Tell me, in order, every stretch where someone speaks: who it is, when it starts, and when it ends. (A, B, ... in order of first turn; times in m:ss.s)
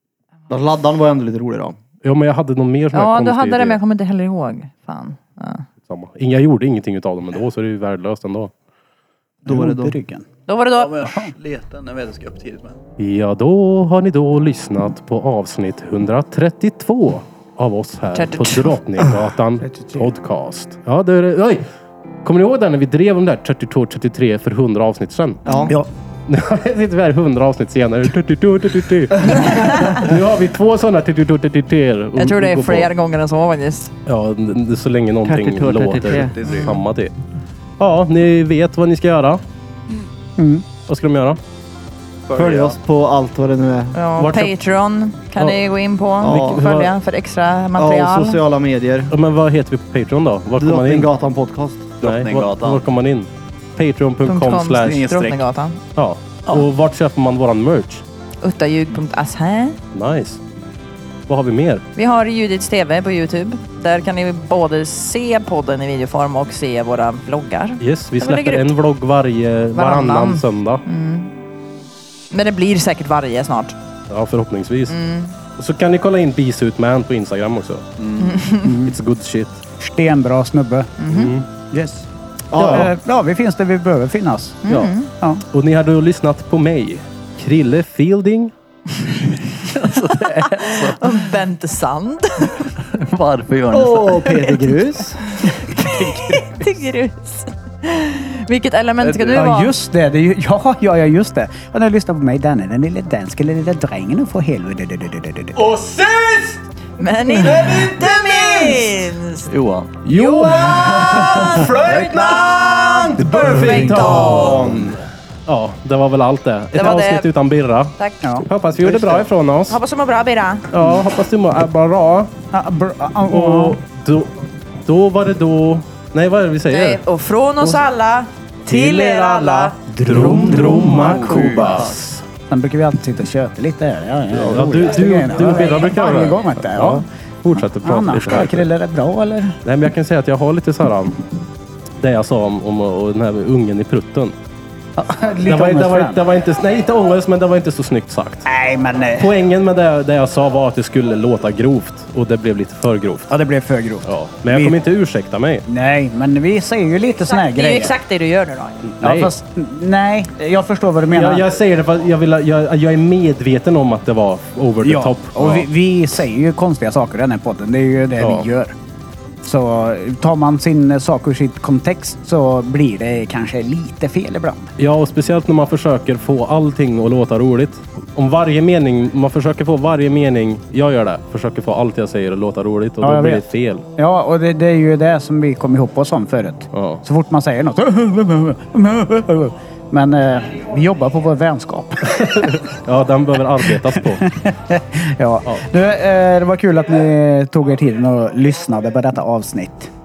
0:00.5-0:01.8 A
0:02.0-0:03.8 B
0:02.9-0:05.6 C
0:05.8-0:08.5 B
0:09.4-0:10.0 A
0:09.4-0:10.3 D
0:10.5-0:11.2 C
0:10.8-0:12.8 E
0:13.0-0:21.6 B
0:18.1-0:18.8 C
0:19.6-0:20.1 D
0:22.2-0:25.4 B
0:25.4-0:25.7 A
0:26.3-0:32.9 B
0:32.2-0:33.9 C
0:34.1-0:37.1 B
0:35.2-0:36.8 A
0:36.4-0:36.7 E
0:36.5-0:36.7 C
0:37.8-0:39.4 B
0:40.4-0:40.7 D
0:40.8-0:41.4 B
0:42.3-0:42.8 E
0:42.3-0:44.0 A
0:44.0-0:48.4 C
0:44.2-0:44.5 B
0:46.2-0:46.6 A
0:46.2-0:46.9 B
0:47.8-0:49.1 A
0:49.1-0:51.1 B
0:50.6-0:52.0 A
0:52.0-0:52.8 E
0:52.0-0:55.3 B
0:54.2-0:55.8 C
0:54.8-0:55.4 E
0:56.0-0:58.0 B
0:58.4-0:59.8 C
0:59.9-1:00.4 B
1:01.3-1:01.8 B
1:02.0-1:08.7 C
1:07.8-1:10.8 B
1:09.8-1:11.3 C
1:12.3-1:13.8 C
1:14.1-1:15.0 B
1:14.9-1:15.4 C
1:15.6-1:17.8 B
1:18.0-1:18.4 E
1:18.2-1:18.7 C
1:18.6-1:19.0 D
1:18.8-1:19.6 B
1:19.8-1:21.0 D
1:21.0-1:21.3 C
1:21.1-1:21.5 B
1:21.7-1:24.7 D
1:22.5-1:22.9 A
1:24.6-1:25.1 C
1:24.7-1:25.0 B
1:25.5-1:28.5 B
1:29.7-1:31.2 E
1:30.6-1:32.7 C
1:32.9-1:34.4 E
1:33.7-1:35.6 A
1:34.2-1:34.7 C
1:35.4-1:39.7 C
1:35.8-1:36.6 D
1:39.0-1:39.5 E
1:39.3-1:45.6 D
1:45.6-1:46.6 B
1:47.0-1:49.5 C
1:47.4-1:48.8 B
1:49.5-1:50.0 E
1:50.0-1:59.8 B
1:50.1-1:54.8 C
1:52.7-1:54.9 D
1:56.7-1:57.3 C
1:59.7-2:00.7 C
2:00.7-2:02.3 B
2:02.5-2:03.8 D
2:03.3-2:04.3 B
2:04.9-2:07.0 B
2:06.7-2:10.7 C
2:08.7-2:12.2 B
2:09.9-2:11.9 D
2:11.4-2:11.8 E
2:12.5-2:19.6 D
2:14.3-2:18.7 B
2:19.6-2:21.2 B
2:22.0-2:24.4 B
2:25.0-2:26.2 D
2:25.4-2:28.5 B
2:28.5-2:29.3 D
2:29.2-2:33.3 B
2:33.3-2:34.8 D
2:34.0-2:35.6 B
2:35.7-2:37.9 D
2:37.2-2:38.8 C
2:38.8-2:39.3 B
2:39.0-2:41.5 D
2:41.1-2:45.7 B
2:44.8-2:48.7 D
2:48.2-2:48.5 B
2:49.4-2:54.7 D
2:54.8-3:03.8 B
3:03.0-3:03.5 D
3:04.0-3:12.6 D
3:06.7-3:07.0 B
3:12.1-3:14.3 B
3:13.6-3:19.9 D